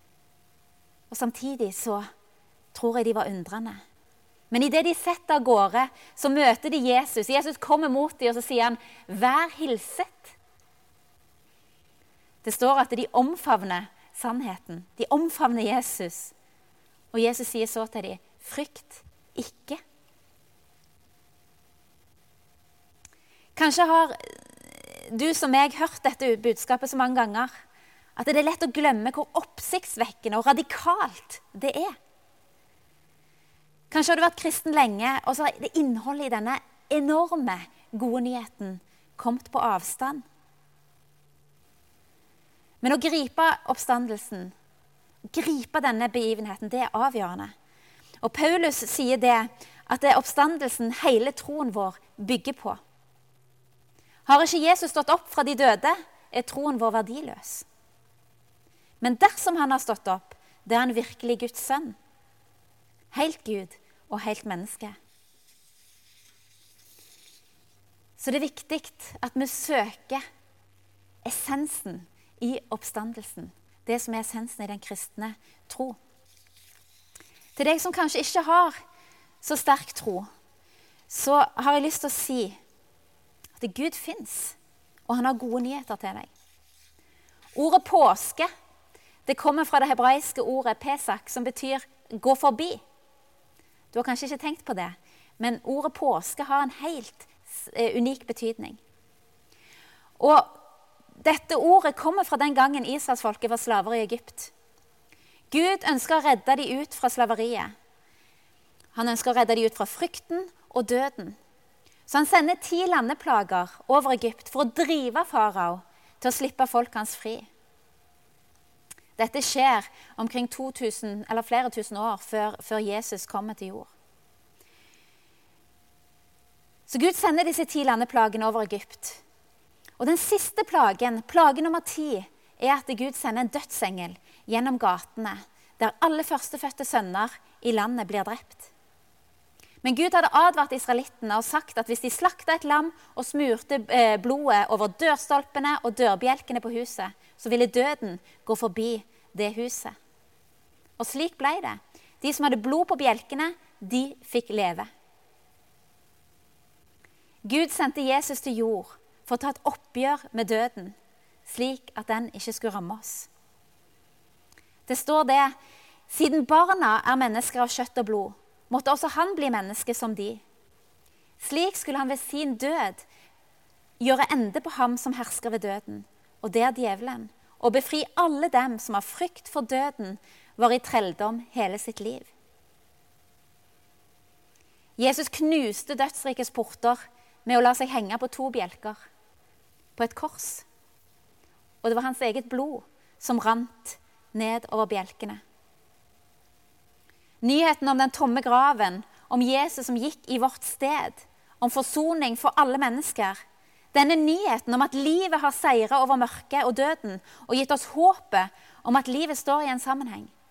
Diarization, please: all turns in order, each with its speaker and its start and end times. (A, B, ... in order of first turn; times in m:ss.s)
0:01.1-0:02.0 A
0:02.7-0:03.8 A
0:04.5-0:10.4 A
0:12.4-0:16.3 A
0:17.1-0:19.8 A
0:23.6-0:27.5 A
0:28.2-0:31.9 A
0:33.9-0:40.2 A
0:42.8-0:44.5 A
0:45.3-0:47.5 A
0:48.2-0:52.8 A
0:54.3-0:57.7 A
0:59.0-1:02.0 A
1:03.1-1:05.0 A
1:08.2-1:10.2 A
1:11.2-1:16.0 A
1:17.6-1:18.8 A
1:19.4-1:20.3 A
1:21.1-1:22.6 A
1:23.6-1:24.6 A
1:25.1-1:26.3 A
1:27.6-1:28.5 A
1:29.3-1:32.8 A
1:33.9-1:38.8 A
1:40.2-1:40.6 A
1:41.2-1:44.5 A
1:45.5-1:47.7 A
1:48.9-1:51.4 A
1:52.1-1:57.5 A
1:59.2-2:03.9 A
2:06.9-2:09.2 A
2:10.0-2:18.7 A
2:19.8-2:30.0 A
2:31.0-2:34.9 A
2:37.4-2:43.3 A
2:44.9-2:45.5 A
2:46.1-2:50.4 A
2:51.4-2:53.0 A
2:54.0-3:02.3 A
3:05.0-3:09.0 A
3:10.0-3:10.6 A
3:11.8-3:15.4 A
3:17.4-3:23.4 A
3:23.9-3:30.3 A